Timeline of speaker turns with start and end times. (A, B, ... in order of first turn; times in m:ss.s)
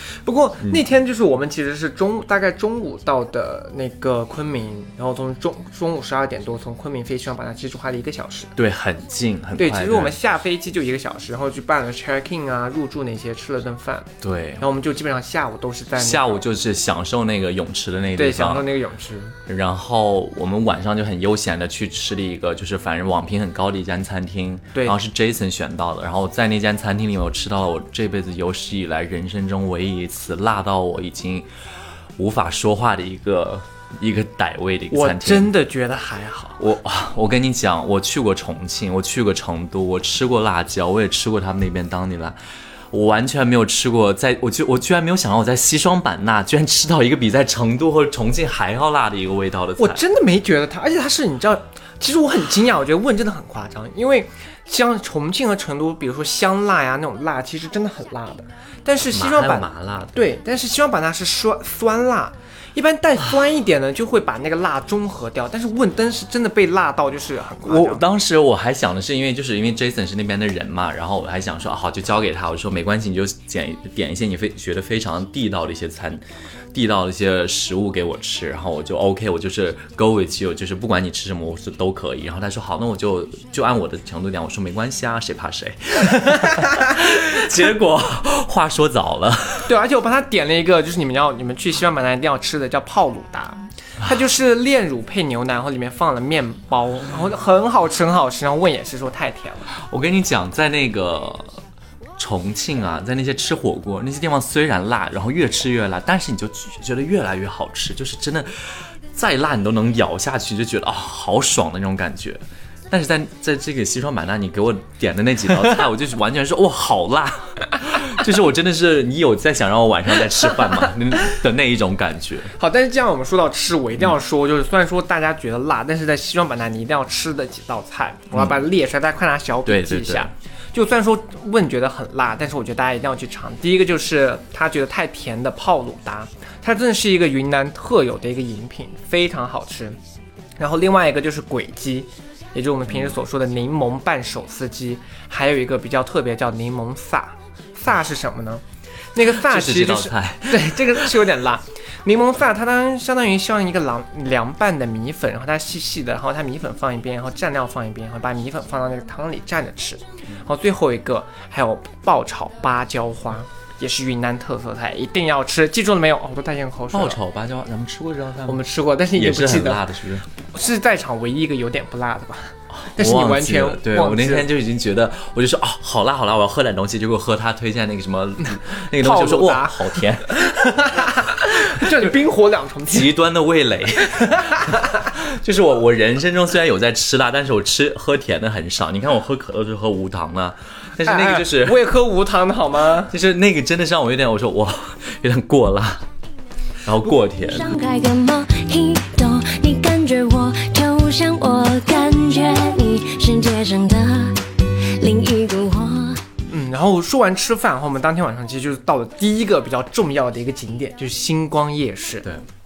0:00.2-0:08.5 A
0:08.6-0:10.2 B
0:09.6-0:16.4 A
0:14.2-0:14.6 B
0:16.0-0:18.7 B
0:18.2-0:19.4 A
0:19.5-0:31.5 B
0:32.2-0:35.5 B
0:34.9-0:36.6 A
0:36.6-0:42.4 B
0:42.9-0:50.0 B
0:49.8-1:08.0 A
0:59.1-1:00.2 B
1:07.6-1:29.7 B
1:26.3-1:26.9 A
1:29.6-1:39.7 A
1:39.8-1:41.6 B
1:42.2-2:02.5 B
2:02.6-2:20.0 A
2:09.6-2:10.3 B
2:20.6-2:47.2 A
2:29.2-2:31.1 B
2:46.9-2:50.2 B
2:48.4-2:49.8 A
2:50.4-2:54.5 A
2:52.7-3:02.0 B
2:58.9-3:03.1 A
3:02.9-3:11.8 B
3:04.1-3:05.0 A
3:11.0-3:13.1 A
3:13.1-3:16.0 B
3:16.8-3:17.8 B
3:17.5-3:26.2 C
3:26.5-3:32.3 A